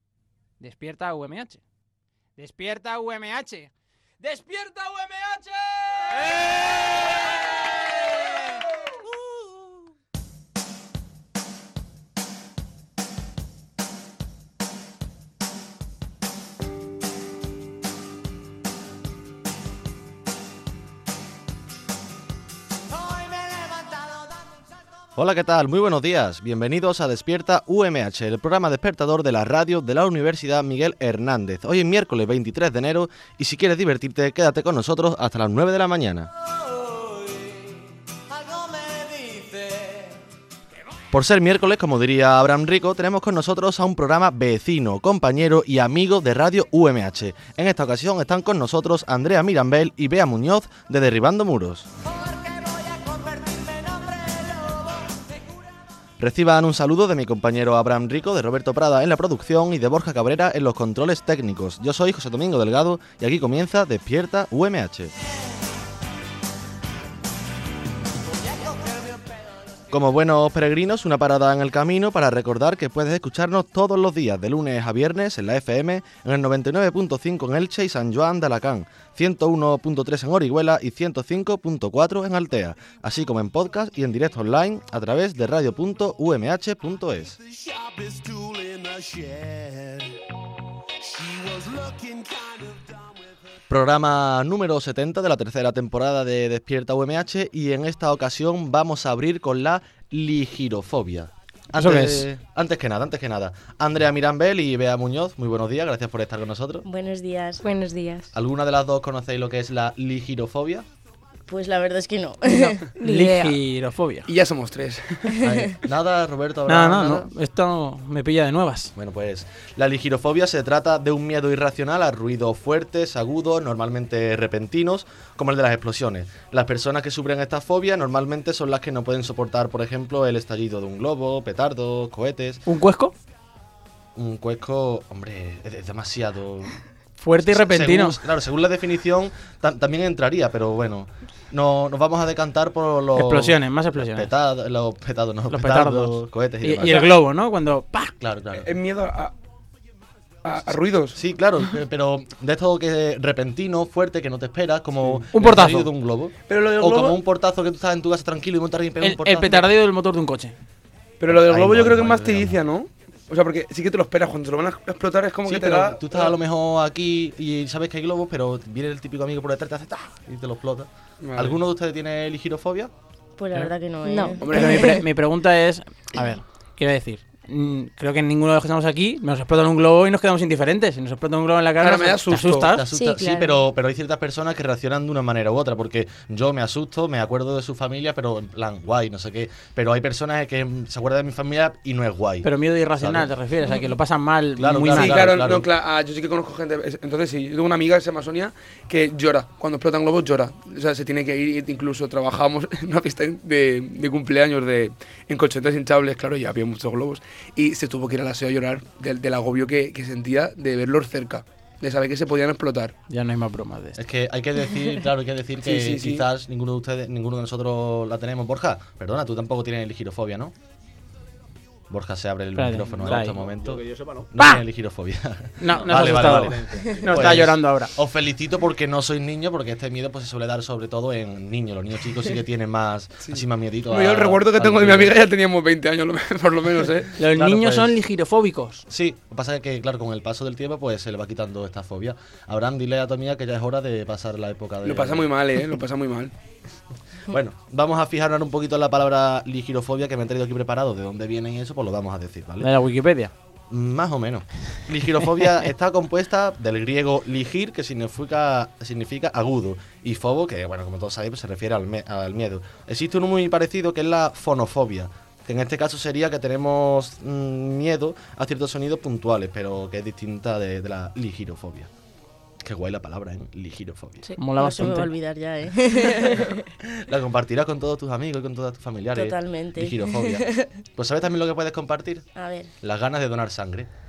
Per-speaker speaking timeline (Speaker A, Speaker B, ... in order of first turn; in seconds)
Speaker A: 0.6-1.6, 2.4-6.5, 8.1-8.6, 101.8-102.3, 113.0-114.3, 116.7-118.9, 132.7-133.1, 137.2-138.2, 143.2-144.3, 145.5-148.1, 155.3-155.9, 159.0-160.6, 174.5-182.9, 192.4-195.3, 213.1-214.0, 222.6-223.4, 224.4-224.6, 225.6-227.9, 237.2-238.8, 252.6-253.3, 274.4-275.1
Speaker B: 25.1-36.3, 41.1-51.9, 56.2-65.1, 69.9-87.4, 93.7-106.8, 108.3-110.9, 115.4-117.3, 119.0-132.6, 134.2-136.8, 137.4-147.1, 148.2-148.7, 151.2-159.7, 161.3-162.6, 165.4-172.9, 182.7-193.3, 194.6-195.7, 214.0-220.5, 221.9-235.2, 237.3-238.0, 238.9-245.3, 247.3-252.7, 253.7-271.9, 272.6-274.3, 276.9-282.2, 282.8-283.9
Speaker C: 38.5-39.9, 87.4-90.2, 91.2-93.4, 223.1-224.3
Speaker D: 106.8-107.6, 111.5-112.8, 173.4-174.9, 274.6-276.5, 279.1-280.7, 282.4-282.7
Speaker E: 107.6-108.3, 113.0-113.6, 174.1-174.8, 182.9-183.6, 276.3-276.6
Speaker F: 114.3-115.4, 148.5-149.3, 150.4-151.2, 156.5-157.2, 161.2-166.3, 171.2-171.6, 174.4-175.0, 181.8-182.7, 194.9-212.9, 215.6-216.2, 233.2-237.1, 244.8-246.3